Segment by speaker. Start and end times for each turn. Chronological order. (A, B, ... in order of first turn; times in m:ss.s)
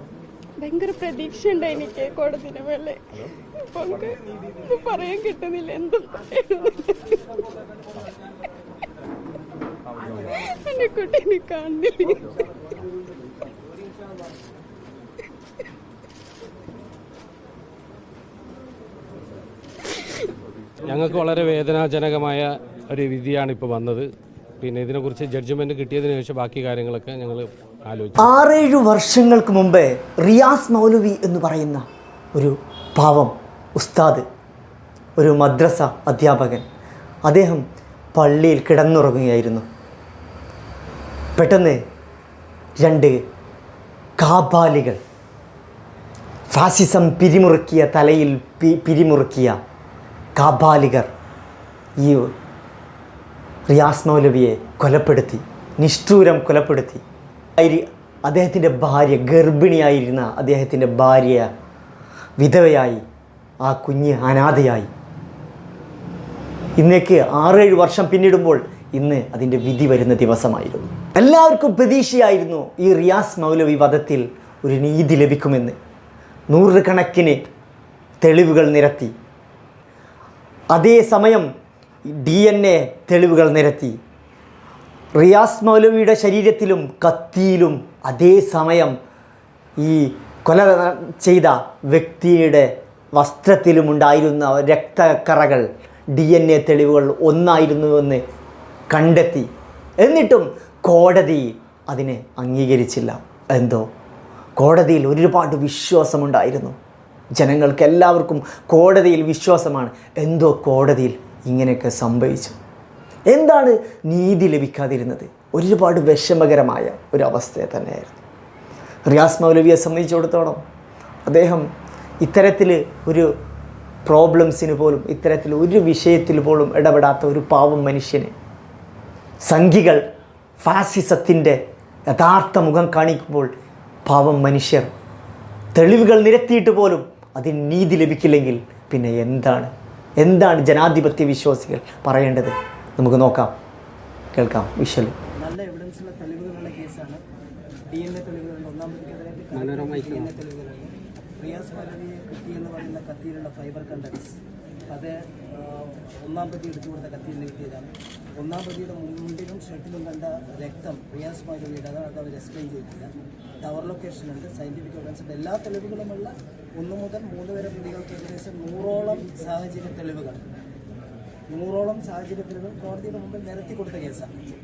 0:00.6-0:07.4 A
0:09.9-0:10.4 B
0:10.5-0:12.3 A
0:20.8-0:24.1 B
0:24.6-0:28.4 B
0:28.2-0:34.2 C
0:35.2-0:36.6 C
0:37.2-0:37.6 C
0:38.1-0:39.6 C
0:41.4-0:41.8 C
0:42.8-0:43.2 C
0:44.2-0:45.0 C
0:46.5-0:49.6 C
0:50.4-0:51.1 C
0:52.0-0:52.3 C
0:53.7-0:57.0 C
0:57.6-1:01.5 C
1:02.4-1:03.0 C
1:03.6-1:04.9 C
1:06.8-1:15.8 C
1:16.5-1:17.5 C
1:18.2-1:19.1 C
1:20.7-1:21.5 C
1:22.0-1:24.0 C
1:25.2-1:29.0 C
1:29.8-1:38.2 C
1:38.9-1:39.5 C
1:40.0-1:43.9 C
1:44.6-1:46.8 C
1:47.4-1:52.6 C
1:53.3-1:58.2 C
1:59.1-2:00.6 C
2:01.2-2:01.7 C
2:02.2-2:03.3 C
2:04.0-2:08.3 C
2:09.4-2:10.0 C
2:10.6-2:13.5 C
2:14.0-2:14.9 C
2:15.7-2:23.5 C
2:24.3-2:25.1 C
2:25.4-2:27.2 D
2:27.9-2:34.4 D
2:29.5-2:30.3 B
2:34.9-2:50.4 D
2:51.5-2:54.4 D